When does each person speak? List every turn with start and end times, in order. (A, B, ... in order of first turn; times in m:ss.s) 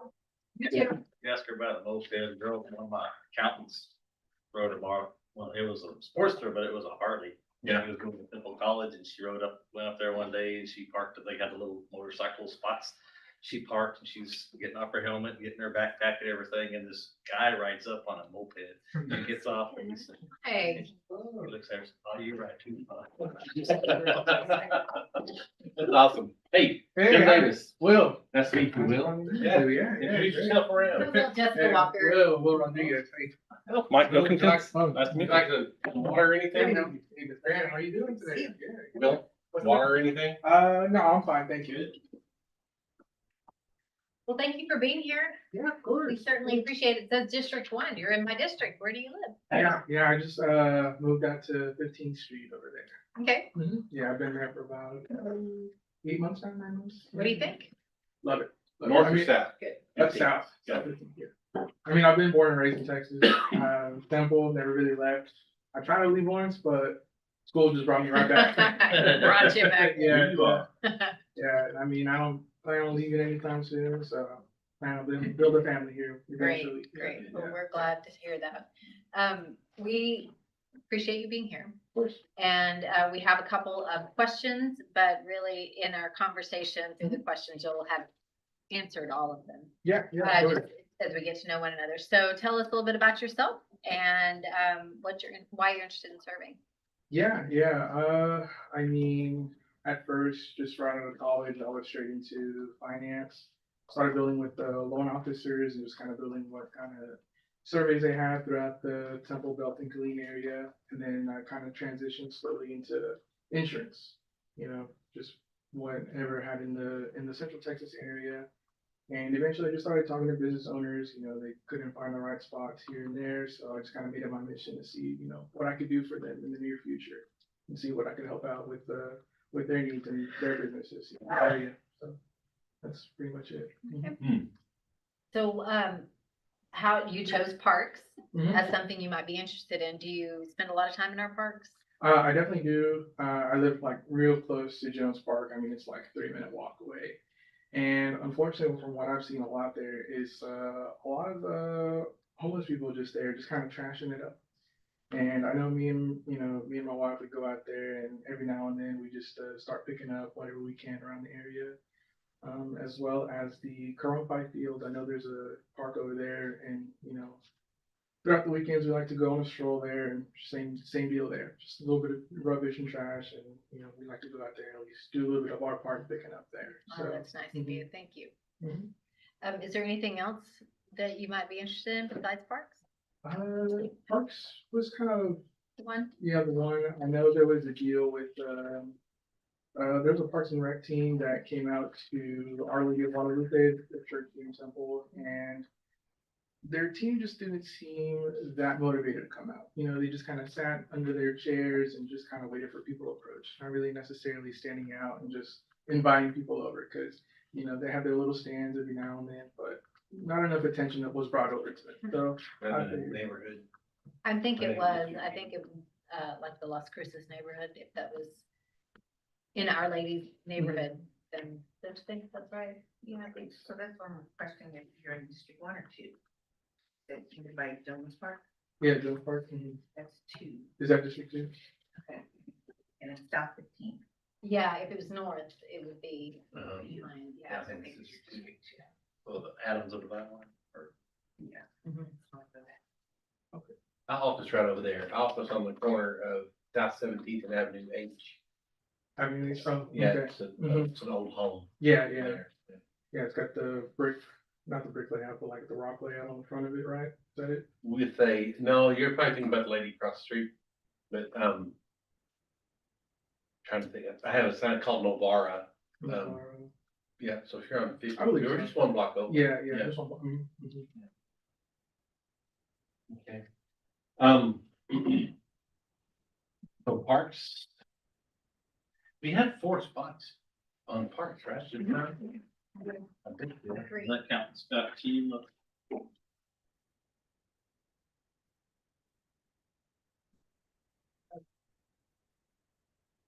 0:00.6-0:01.0 A
0:01.2-0:04.0 B
0:04.5-0:20.2 B
0:20.4-0:20.9 A
0:21.1-0:21.5 C
0:21.4-0:24.4 B
0:23.7-0:24.5 A
0:25.8-0:31.1 D
0:27.0-0:33.3 C
0:30.9-0:32.8 A
0:33.7-0:36.9 D
0:34.0-0:42.0 C
0:39.0-0:40.4 D
0:44.3-0:45.4 A
0:45.5-0:46.7 C
0:45.9-0:49.4 A
0:49.5-0:53.0 C
0:53.2-0:53.5 A
0:53.5-0:57.6 C
0:57.1-0:57.7 A
0:58.2-0:59.4 C
0:58.8-1:00.9 D
1:00.0-1:01.3 C
1:01.8-1:10.7 C
1:08.2-1:10.3 A
1:10.0-1:10.6 D
1:10.8-1:11.1 A
1:11.4-1:17.6 C
1:16.4-1:20.3 A
1:20.9-1:21.8 A
1:22.4-1:28.1 A
1:28.7-1:36.6 A
1:29.8-1:30.6 C
1:37.1-1:58.5 C
1:59.1-2:12.2 C
2:12.8-2:14.1 C
2:13.9-2:14.2 A
2:14.2-2:14.5 D
2:15.3-2:16.1 A
2:16.7-2:21.8 A
2:18.3-2:18.7 C
2:22.0-2:27.2 C
2:27.7-2:34.4 C
2:35.1-2:41.8 C
2:42.4-2:47.4 C
2:48.2-2:57.9 C
2:56.9-2:58.3 A
2:58.6-2:58.9 C
2:59.4-3:02.8 A
3:03.2-3:05.4 C
3:05.8-3:06.1 A
3:06.2-3:09.0 C
3:09.8-3:15.7 C
3:16.6-3:33.2 C
3:32.6-3:33.7 D
3:34.2-3:38.4 A
3:34.6-3:35.4 D
3:39.6-3:43.0 A
3:40.6-3:40.8 C
3:43.0-3:46.2 E
3:47.1-3:48.4 E
3:48.8-3:49.8 C
3:50.0-3:50.7 E
3:50.8-3:51.5 C
3:52.0-3:52.2 E
3:53.0-3:54.0 E
3:54.4-3:57.7 A
3:56.5-3:56.9 D
3:56.8-3:58.9 E
3:57.5-3:58.4 D
3:59.3-4:00.9 B
4:01.4-4:02.8 E
4:04.1-4:08.4 D
4:09.2-4:10.9 C
4:09.7-4:12.8 D
4:11.8-4:12.4 C
4:13.1-4:17.6 C
4:17.8-4:20.5 D
4:21.1-4:21.8 D
4:23.6-4:26.4 D
4:26.0-4:26.7 C
4:27.2-4:29.9 D
4:28.1-4:30.9 C
4:33.1-4:33.4 D
4:34.2-4:35.3 D
4:36.8-4:37.7 D
4:39.2-4:40.4 D
4:40.9-4:42.2 D
4:43.2-4:43.9 D
4:43.7-4:44.2 A
4:44.0-4:45.5 B